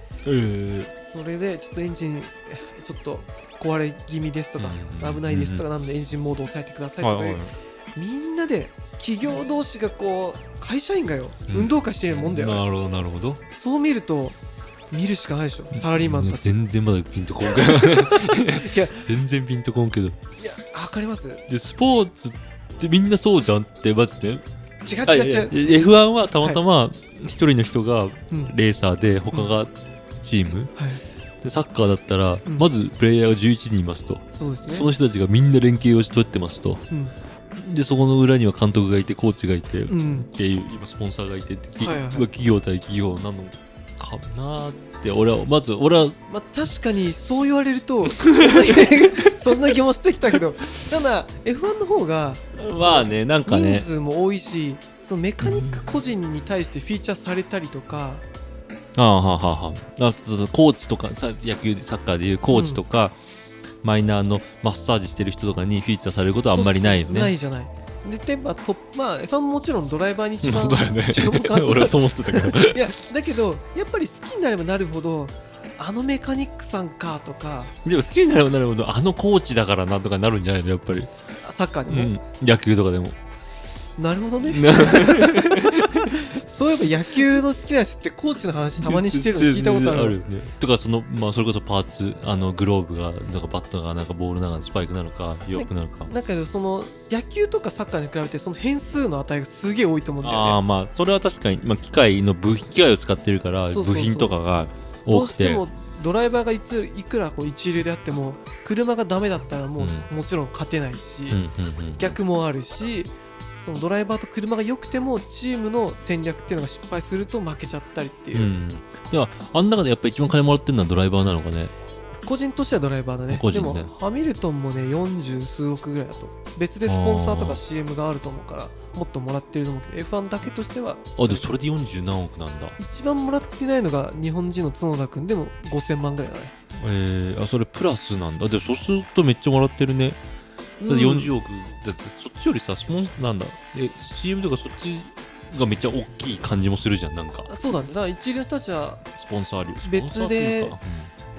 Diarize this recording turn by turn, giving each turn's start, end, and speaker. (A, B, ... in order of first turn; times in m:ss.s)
0:00.2-0:00.9 A
0:01.1-0:07.4 B
0:04.6-0:05.6 A
0:07.0-0:07.5 A
0:08.0-0:12.6 B
0:11.5-0:13.4 A
0:13.5-0:14.4 B
0:14.9-0:16.6 B
0:15.7-0:20.2 A
0:17.7-0:19.1 B
0:20.4-0:21.4 B
0:21.5-0:24.4 A
0:24.8-0:25.6 B
0:25.1-0:30.7 A
0:30.8-0:31.0 B
0:31.4-0:36.8 A
0:34.3-0:34.9 B
0:36.9-0:37.2 B
0:37.6-0:46.2 A
0:39.9-0:40.3 B
0:41.8-0:42.3 B
0:46.3-0:58.2 B
0:48.2-0:49.2 A
0:52.6-0:53.9 A
0:55.4-0:55.9 A
0:59.0-1:03.2 A
1:02.5-1:02.8 B
1:03.8-1:07.3 A
1:06.5-1:17.7 B
1:10.4-1:12.9 A
1:17.8-1:21.1 A
1:21.4-1:22.1 B
1:21.9-1:23.2 A
1:24.0-1:25.6 B
1:24.5-1:26.2 A
1:26.2-1:30.2 B
1:28.8-1:36.1 A
1:35.6-1:40.6 B
1:40.2-1:45.6 A
1:43.6-1:44.4 B
1:45.1-1:51.4 B
1:49.8-1:50.1 A
1:51.3-1:52.2 A
1:52.0-1:58.5 B
1:58.3-2:01.7 A
2:02.2-2:11.5 B
2:03.3-2:03.9 A
2:06.9-2:07.6 A
2:11.2-2:12.8 A
2:12.8-2:16.5 B
2:16.8-2:20.2 A
2:20.8-2:21.3 B
2:20.9-2:27.5 A
2:27.5-2:29.0 B
2:29.1-2:31.1 A
2:29.8-2:30.8 B